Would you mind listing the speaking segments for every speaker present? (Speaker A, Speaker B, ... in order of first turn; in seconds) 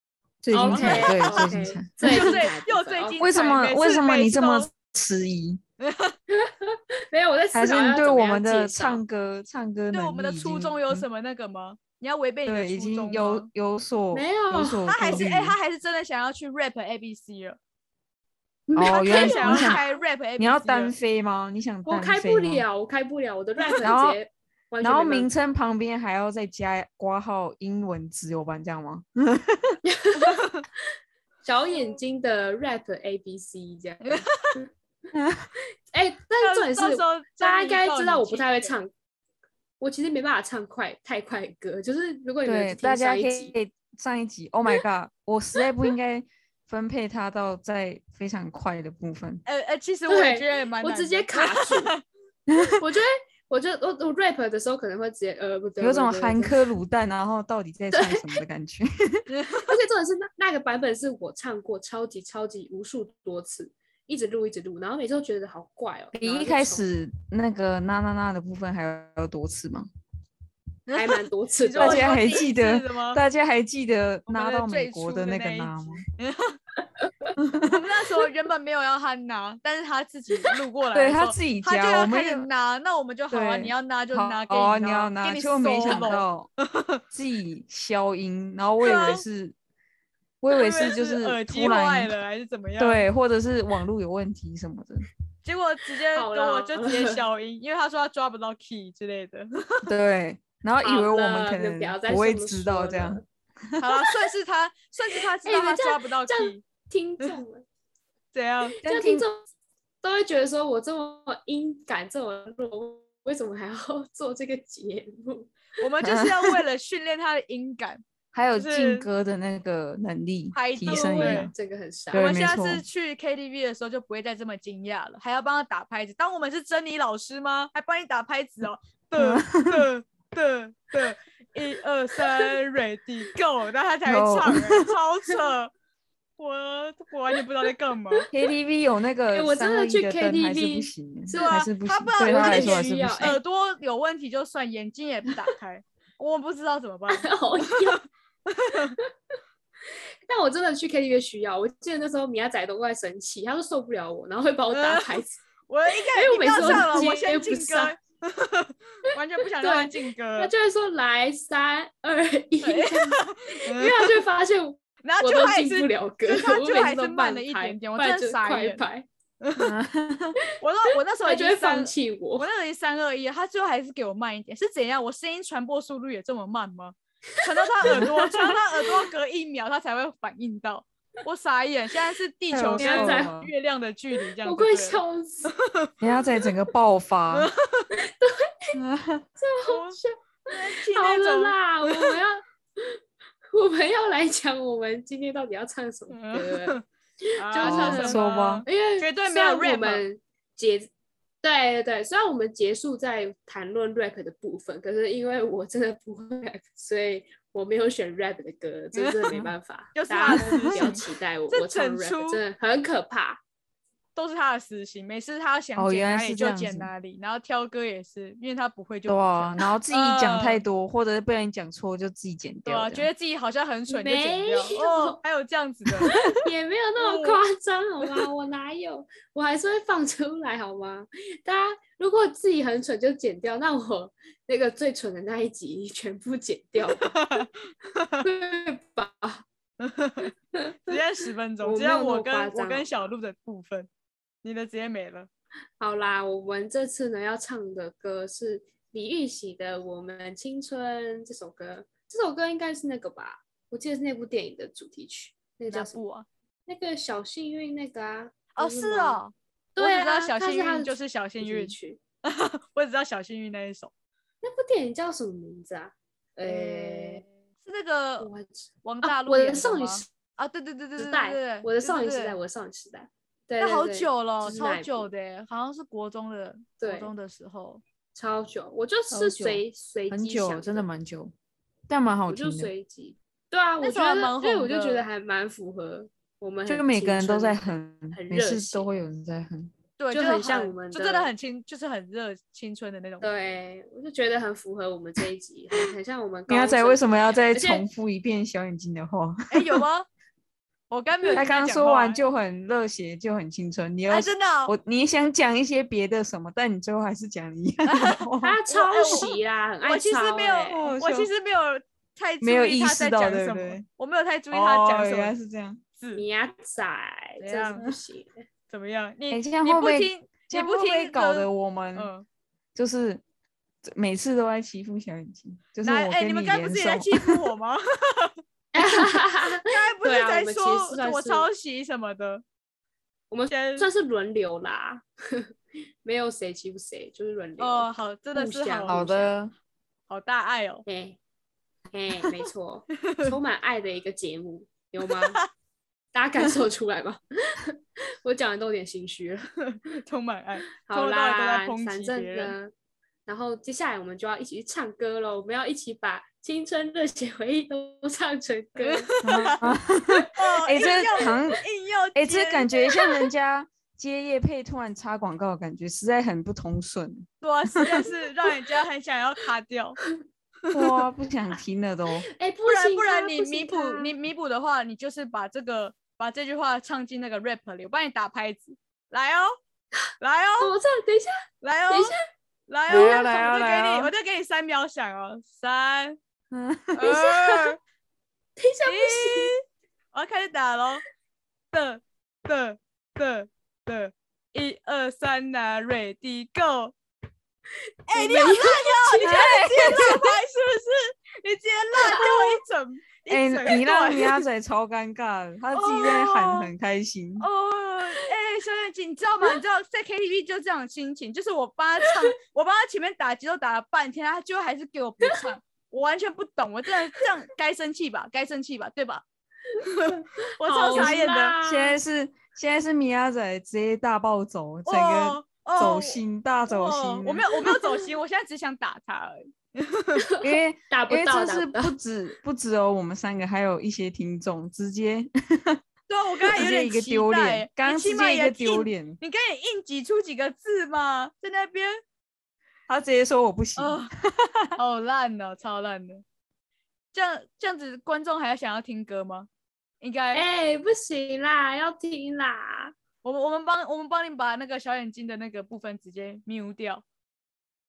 Speaker A: 0.4-2.4, 3.2-5.6, 7.5-11.0, 12.4-15.6, 18.7-19.8, 20.4-22.6, 23.8-24.2, 24.8-29.8, 35.1-35.5, 42.4-49.4, 55.8-59.2, 66.1-69.9, 71.8-76.0, 77.4-77.8, 80.9-82.5, 83.3-86.5, 87.1-89.5, 90.4-92.1, 92.8-95.1, 99.8-103.8, 108.8-109.2, 116.0-116.4, 118.3-121.5, 122.1-122.8, 129.1-129.8, 134.1-134.9, 138.3-143.4, 169.6-170.4, 177.9-178.4, 182.5-183.5, 186.0-187.5, 188.7-189.2, 197.6-198.7, 215.8-216.9, 219.1-223.1, 279.1-281.3, 281.9-282.7, 286.7-289.7, 296.5-299.8, 301.3-308.6, 310.7-311.3, 312.4-313.8, 314.5-315.8, 319.3-322.1, 322.7-323.2, 323.8-327.5, 338.9-339.5, 359.2-361.6, 362.1-367.3, 370.7-372.3, 382.9-384.1, 386.5-387.1, 399.2-400.4, 403.3-407.5, 420.9-427.5, 430.4-435.8, 436.4-439.2, 442.9-444.8
Speaker B: 0.5-1.5, 2.0-4.7, 5.8-6.2, 9.9-13.5, 14.9-17.6, 18.8-20.9, 34.0-34.6, 36.4-38.7, 49.5-52.0, 59.3-59.7, 71.6-73.2, 74.3-76.6, 77.6-86.2, 86.7-87.0, 88.8-89.2, 90.5-93.1, 95.4-99.9, 103.8-106.6, 108.3-108.8, 115.8-118.0, 118.5-119.1, 120.5-121.5, 122.1-135.7, 136.4-138.3, 141.3-147.9, 148.5-148.9, 154.7-160.5, 162.6-164.1, 165.0-168.8, 169.4-169.7, 170.6-185.9, 187.3-187.9, 189.7-192.2, 196.1-196.8, 197.4-200.0, 208.9-209.3, 209.9-212.4, 214.1-220.6, 222.7-226.1, 227.0-227.4, 237.0-238.2, 239.8-240.3, 240.9-243.9, 244.4-245.3, 255.7-256.3, 258.6-263.9, 266.4-268.3, 268.8-272.4, 273.6-277.8, 283.8-285.1, 290.0-293.3, 299.5-300.1, 300.9-302.2, 304.1-304.7, 307.9-309.3, 309.8-315.3, 316.0-316.2, 317.4-317.8, 318.7-322.2, 325.8-332.4, 333.5-333.9, 337.6-339.3, 340.1-340.8, 345.1-345.4, 349.6-352.5, 358.8-359.8, 360.3-363.1, 367.4-370.0, 372.6-379.6, 380.2-380.7, 381.6-382.2, 382.7-386.2, 386.9-387.8, 388.9-389.6, 390.1-391.0, 391.7-396.9, 398.1-404.4, 405.7-406.7, 407.4-419.2, 419.8-421.6, 424.9-430.2, 436.1-442.0, 443.8-444.1, 444.8-446.2, 447.1-449.5, 450.0-450.4, 453.2-457.0
Speaker C: 0.5-3.2, 6.3-9.0, 14.1-15.2, 18.7-19.8, 21.9-25.3, 29.9-30.4, 31.4-34.7, 35.9-38.9, 39.8-43.5, 50.1-51.9, 52.7-56.6, 57.9-58.2, 59.6-66.8, 70.9-72.2, 96.1-97.2, 100.8-103.2, 105.4-107.6, 108.8-109.4, 110.0-115.5, 120.9-122.3, 139.3-141.6, 142.2-143.4, 147.1-148.0, 150.2-155.4, 155.9-157.9, 159.6-169.1, 171.2-172.5, 182.8-183.3, 184.4-185.5, 188.0-188.8, 189.4-193.0, 193.5-200.9, 201.4-213.4, 223.9-225.2, 226.1-237.4, 238.2-239.4, 240.5-241.0, 241.6-242.9, 245.8-256.0, 256.6-259.2, 259.7-262.0, 264.4-267.2, 268.2-270.0, 271.0-275.1, 276.8-277.1, 278.1-280.9, 282.3-289.0, 290.1-291.3, 293.2-297.9, 308.4-310.8, 316.1-318.4, 328.7-331.5, 333.3-335.5, 336.0-339.0, 340.9-341.2, 341.9-345.4, 346.1-349.5, 350.8-352.7, 353.3-359.1, 372.3-374.1, 380.6-382.1, 387.1-387.7, 388.6-389.5, 398.1-399.3, 420.1-422.0, 430.3-431.9, 450.3-452.9